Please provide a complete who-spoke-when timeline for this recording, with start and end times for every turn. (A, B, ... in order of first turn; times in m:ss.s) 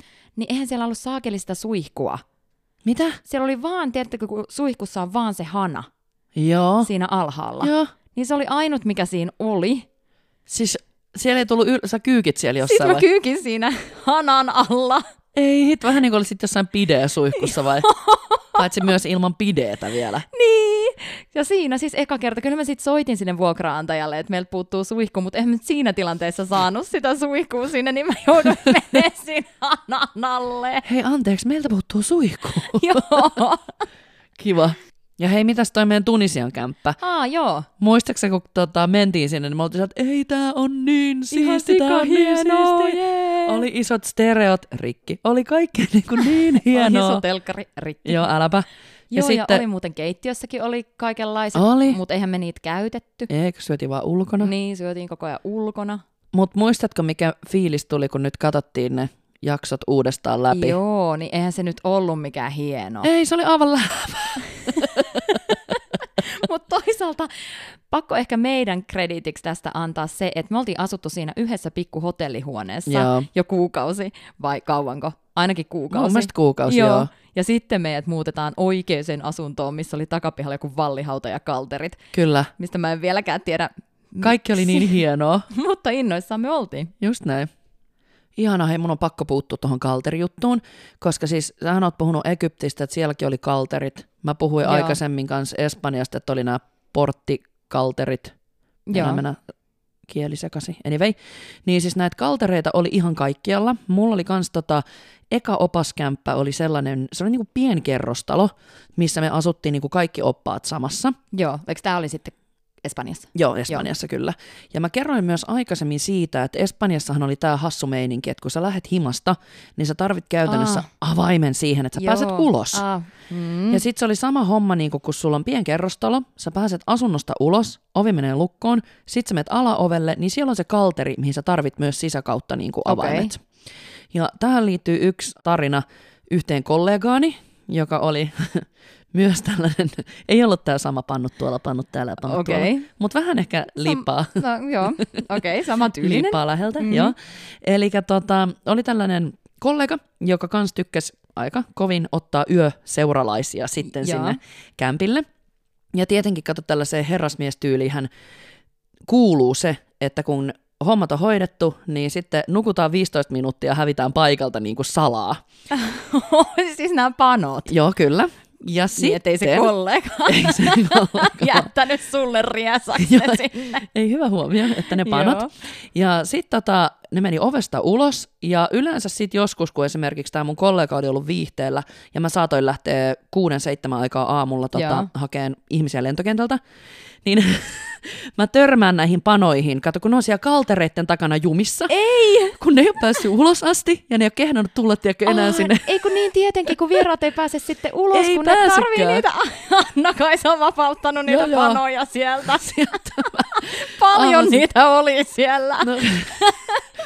0:00.4-0:02.2 A
0:02.8-0:03.2 B
0:03.2-0:05.9 A
0:06.4-0:06.9 B
0:06.8-0:09.9 A
0:07.6-0:07.9 B
0:10.5-0:13.0 B
0:12.6-0:15.1 A
0:15.4-0:17.9 B
0:17.4-0:18.6 A
0:18.5-0:20.3 B
0:20.3-0:30.9 A
0:30.8-0:33.4 B
0:32.6-0:33.8 A
0:34.4-0:37.0 B
0:37.0-0:37.7 A
0:37.8-0:47.2 B
0:41.3-0:43.6 A
0:46.5-0:48.3 A
0:48.0-0:49.6 B
0:49.1-0:53.3 A
0:51.6-0:52.0 B
0:53.3-0:54.5 B
0:54.4-0:56.0 A
0:56.3-1:00.8 B
1:00.5-1:03.1 A
1:03.0-1:05.3 B
1:04.7-1:22.0 A
1:12.9-1:13.3 B
1:15.9-1:17.1 B
1:22.1-1:22.5 B
1:22.6-1:25.0 A
1:24.2-1:25.5 B
1:25.5-1:26.9 A
1:27.0-1:27.5 B
1:28.4-1:38.3 B
1:34.6-1:35.0 A
1:38.9-1:39.2 A
1:38.9-1:39.4 B
1:40.1-1:51.2 B
1:51.3-1:53.9 A
1:53.4-2:02.8 B
2:00.5-2:00.9 A
2:02.0-2:03.8 A
2:03.7-2:13.4 B
2:12.9-2:13.3 A
2:14.1-2:25.2 B
2:22.3-2:22.9 A
2:23.8-2:27.1 A
2:26.0-2:35.2 B
2:33.8-2:34.4 A
2:35.9-2:38.1 B
2:39.1-2:45.4 B
2:45.7-2:47.7 A
2:47.7-2:49.7 B
2:49.0-2:53.9 A
2:50.3-2:51.7 B
2:53.0-3:06.6 B
2:54.9-2:55.5 A
3:04.7-3:05.1 A
3:07.2-3:12.0 B
3:11.9-3:12.6 A
3:12.6-3:16.2 B
3:15.3-3:26.8 A
3:18.1-3:19.2 B
3:21.3-3:21.8 B
3:22.5-3:24.6 B
3:25.8-3:26.3 B